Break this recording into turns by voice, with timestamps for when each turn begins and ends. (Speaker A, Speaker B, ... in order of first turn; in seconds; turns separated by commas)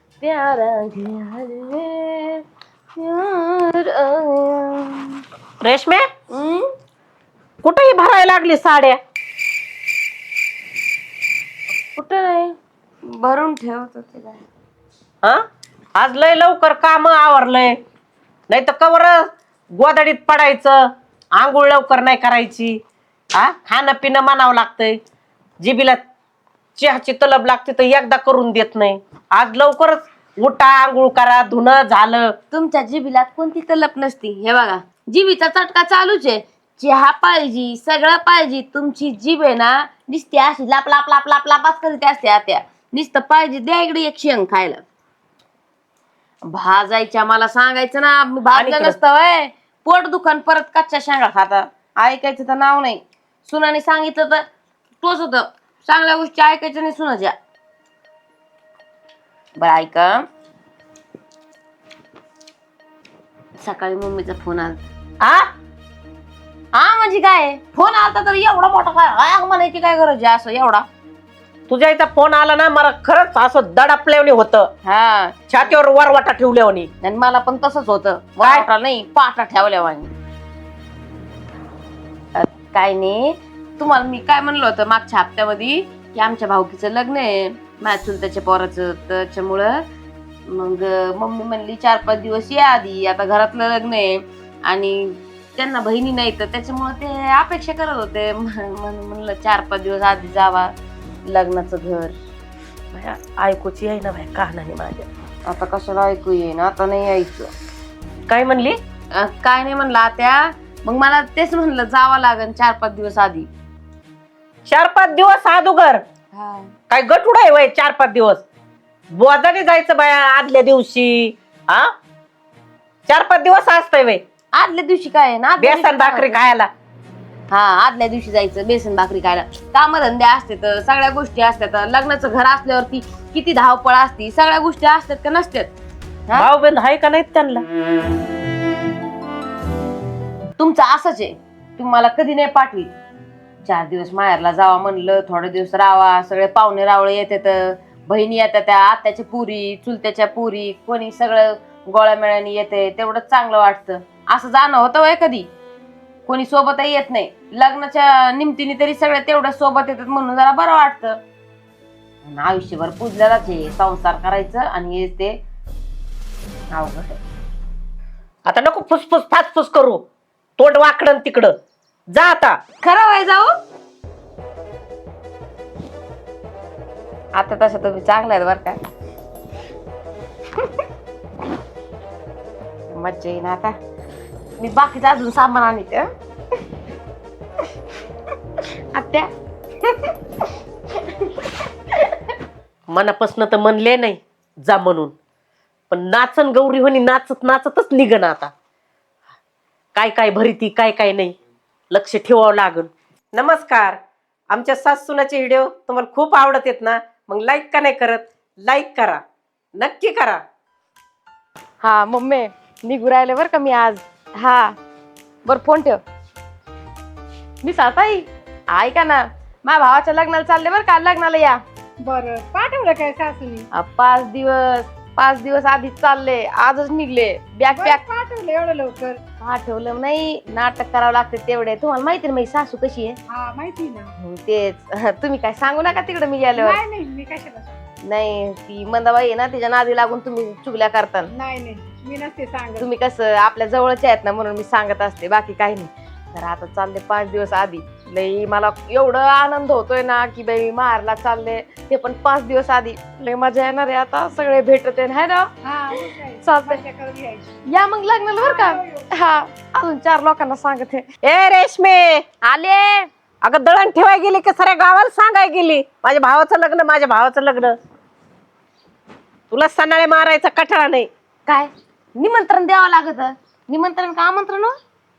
Speaker A: 0.2-2.4, Speaker A: 3.0-5.2, Speaker B: 5.6-6.1, Speaker A: 6.3-6.7, Speaker B: 7.6-9.0, Speaker A: 11.9-12.6, Speaker A: 13.1-14.4, Speaker B: 16.0-17.8, Speaker B: 18.5-22.8, Speaker B: 23.4-25.0, Speaker B: 25.6-26.0, Speaker B: 26.8-32.4, Speaker A: 32.5-44.8, Speaker A: 46.5-54.4, Speaker B: 48.5-49.0, Speaker A: 55.0-57.4, Speaker A: 59.6-60.2, Speaker A: 63.6-64.8, Speaker B: 65.2-65.5, Speaker A: 66.7-70.8, Speaker B: 71.7-74.7, Speaker A: 74.8-75.7, Speaker B: 75.5-76.9, Speaker A: 77.0-80.1, Speaker A: 82.3-89.8, Speaker A: 90.5-100.7, Speaker A: 101.3-102.2, Speaker B: 102.9-105.1, Speaker A: 105.5-107.5, Speaker B: 108.3-108.8, Speaker A: 109.1-113.5, Speaker B: 114.7-116.0, Speaker A: 116.3-116.7, Speaker B: 116.9-118.4, Speaker B: 119.2-121.9, Speaker B: 123.1-124.2, Speaker A: 124.5-126.4, Speaker B: 125.6-126.7, Speaker A: 127.5-135.7, Speaker B: 136.3-137.6, Speaker A: 140.6-142.9, Speaker A: 143.7-155.5, Speaker A: 156.3-161.2, Speaker A: 162.2-165.4, Speaker A: 166.7-167.2, Speaker B: 168.5-170.0, Speaker B: 170.6-171.5, Speaker B: 172.1-172.6, Speaker A: 172.8-173.5, Speaker A: 177.4-178.8, Speaker A: 182.9-183.8, Speaker A: 184.6-186.1, Speaker A: 188.9-189.3, Speaker A: 189.8-190.1, Speaker B: 192.9-195.2, Speaker B: 195.9-198.5, Speaker B: 199.9-201.3, Speaker B: 201.9-204.0, Speaker B: 204.5-209.2, Speaker B: 209.8-210.4, Speaker A: 211.8-214.8, Speaker A: 215.5-216.0, Speaker A: 217.6-221.6, Speaker C: 222.0-223.7, Speaker A: 223.7-228.0, Speaker C: 227.8-229.2, Speaker A: 229.4-233.2, Speaker C: 233.3-234.1, Speaker A: 234.2-236.8, Speaker C: 236.6-237.8, Speaker A: 238.1-241.3, Speaker C: 241.3-242.9, Speaker A: 242.8-255.5, Speaker C: 255.6-257.6, Speaker A: 256.4-256.8, Speaker A: 257.7-261.1, Speaker C: 258.4-258.9, Speaker B: 261.2-262.2, Speaker A: 262.4-263.1, Speaker B: 263.4-267.8, Speaker B: 269.5-271.1, Speaker A: 271.5-274.8